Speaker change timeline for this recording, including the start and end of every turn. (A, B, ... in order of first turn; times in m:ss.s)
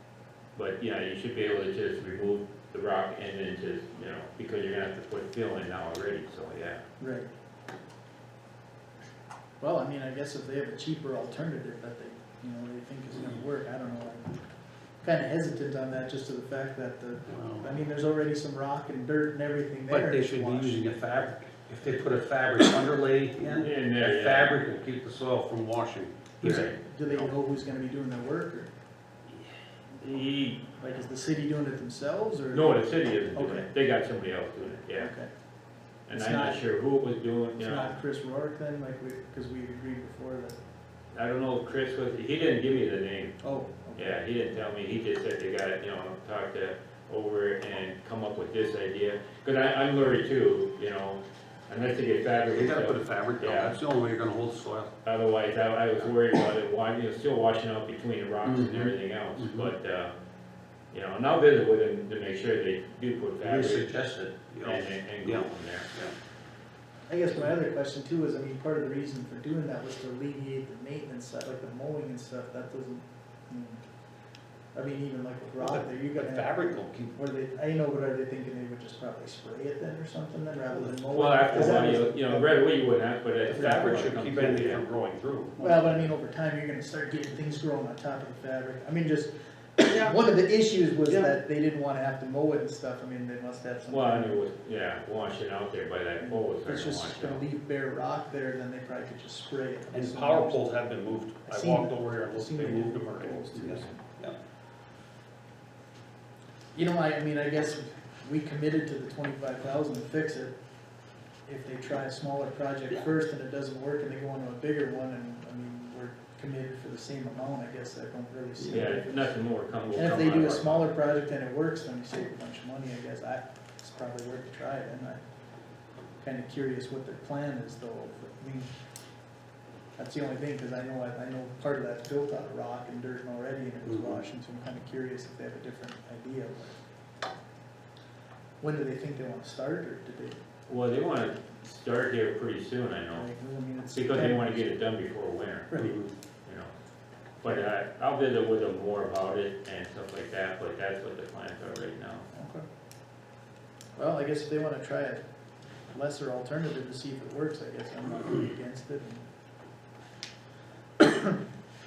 0:00.6-0:06.8 A
0:07.0-0:07.3 B
0:09.6-0:14.3 B
0:15.0-0:21.2 B
0:17.3-0:17.8 C
0:19.9-0:27.3 C
0:23.5-0:24.6 A
0:26.4-0:28.7 B
0:26.4-0:26.7 A
0:29.3-0:30.8 A
0:30.8-0:33.7 B
0:32.5-0:35.1 A
0:35.0-0:35.3 B
0:36.1-0:38.0 A
0:36.1-0:36.6 B
0:37.6-0:40.6 B
0:41.1-0:43.4 A
0:43.4-0:44.2 B
0:44.0-0:53.8 A
0:52.5-0:54.9 C
0:55.0-1:00.1 A
0:58.4-0:58.9 C
1:00.9-1:03.9 A
1:03.4-1:06.1 C
1:04.6-1:05.9 A
1:07.1-1:13.8 B
1:14.7-1:22.6 B
1:15.6-1:17.2 C
1:20.8-1:21.8 C
1:21.1-1:24.8 A
1:23.5-1:25.9 C
1:25.6-1:34.4 B
1:29.9-1:30.1 C
1:33.9-1:37.4 A
1:36.2-1:40.6 B
1:39.9-1:44.4 C
1:41.5-1:44.0 B
1:46.8-1:50.5 B
1:51.5-1:59.3 B
1:58.6-2:00.9 A
1:59.9-2:05.2 B
2:06.2-2:08.7 B
2:10.0-2:16.8 B
2:13.9-2:14.2 C
2:18.6-2:20.4 B
2:20.7-2:23.3 A
2:23.1-2:24.8 B
2:23.9-2:25.8 A
2:25.7-2:26.0 B
2:25.8-2:26.1 C
2:26.4-2:26.7 A
2:27.4-2:32.3 A
2:32.3-2:32.6 B
2:34.0-2:35.2 B
2:35.9-2:39.2 B
2:41.0-2:41.4 B